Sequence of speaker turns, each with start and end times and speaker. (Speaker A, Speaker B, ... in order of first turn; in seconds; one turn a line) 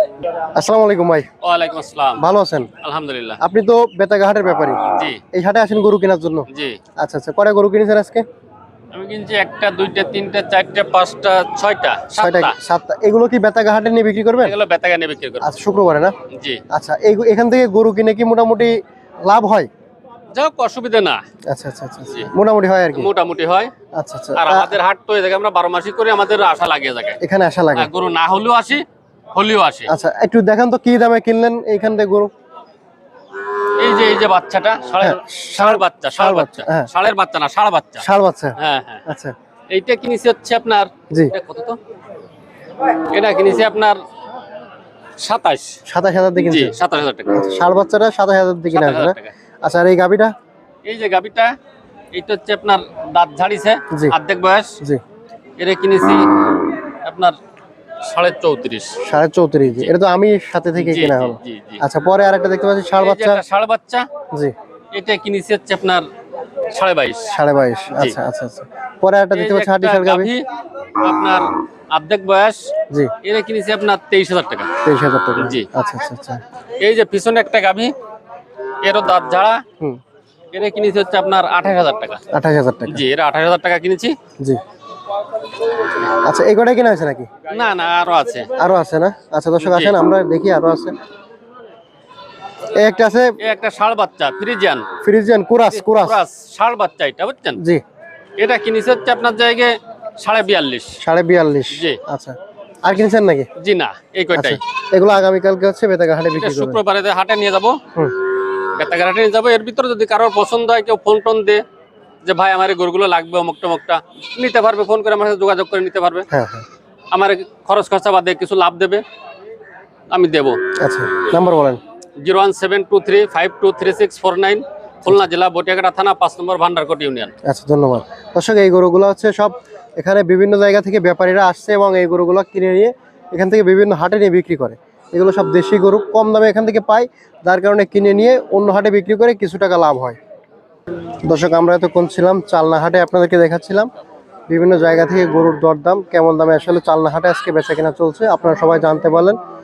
Speaker A: 0.6-1.3
Speaker B: 1.4-2.2
Speaker A: 2.2-2.7
Speaker B: 2.8-3.4
Speaker A: 3.4-4.8
Speaker B: 4.9-5.2
Speaker A: 5.3-8.2
Speaker B: 6.5-6.8
Speaker B: 8.9-12.6
Speaker A: 12.1-14.6
Speaker B: 14.4-15.5
Speaker A: 15.4-16.1
Speaker B: 16.3-16.6
Speaker A: 16.7-19.7
Speaker B: 20.3-21.2
Speaker A: 21.5-23.1
Speaker B: 22.9-23.7
Speaker A: 23.9-24.8
Speaker B: 24.4-27.2
Speaker A: 27.2-27.9
Speaker B: 27.8-28.8
Speaker B: 29.3-29.9
Speaker A: 29.9-32.3
Speaker B: 33.8-38.1
Speaker A: 35.0-36.9
Speaker A: 38.0-39.3
Speaker B: 38.6-39.0
Speaker B: 39.7-41.8
Speaker B: 43.1-44.0
Speaker B: 45.2-45.8
Speaker A: 45.9-46.8
Speaker B: 46.4-47.5
Speaker A: 47.4-50.3
Speaker B: 48.7-49.3
Speaker B: 50.9-51.5
Speaker B: 52.1-54.7
Speaker B: 55.6-56.2
Speaker B: 57.0-57.4
Speaker B: 58.1-58.9
Speaker A: 59.0-63.4
Speaker B: 60.8-61.8
Speaker B: 63.0-64.0
Speaker B: 64.9-66.0
Speaker B: 66.7-67.2
Speaker A: 67.3-70.3
Speaker B: 69.3-70.4
Speaker B: 71.0-72.6
Speaker B: 73.2-74.7
Speaker A: 74.8-76.4
Speaker B: 75.4-75.7
Speaker B: 76.8-77.9
Speaker B: 78.8-79.6
Speaker B: 80.5-82.2
Speaker A: 82.3-83.0
Speaker B: 82.9-84.1
Speaker A: 86.0-87.3
Speaker B: 87.5-88.5
Speaker A: 88.6-90.9
Speaker B: 89.6-89.9
Speaker A: 92.7-93.3
Speaker B: 93.4-94.8
Speaker A: 95.0-96.2
Speaker B: 95.7-97.6
Speaker A: 97.6-97.8
Speaker B: 98.4-101.0
Speaker A: 101.0-103.5
Speaker B: 103.6-104.6
Speaker A: 104.3-106.8
Speaker B: 106.4-107.7
Speaker B: 108.8-111.6
Speaker B: 112.2-116.3
Speaker A: 116.3-116.6
Speaker B: 117.1-119.0
Speaker B: 120.1-120.6
Speaker A: 120.8-121.8
Speaker B: 122.2-127.3
Speaker A: 127.4-140.2
Speaker A: 141.2-143.9
Speaker A: 144.5-149.4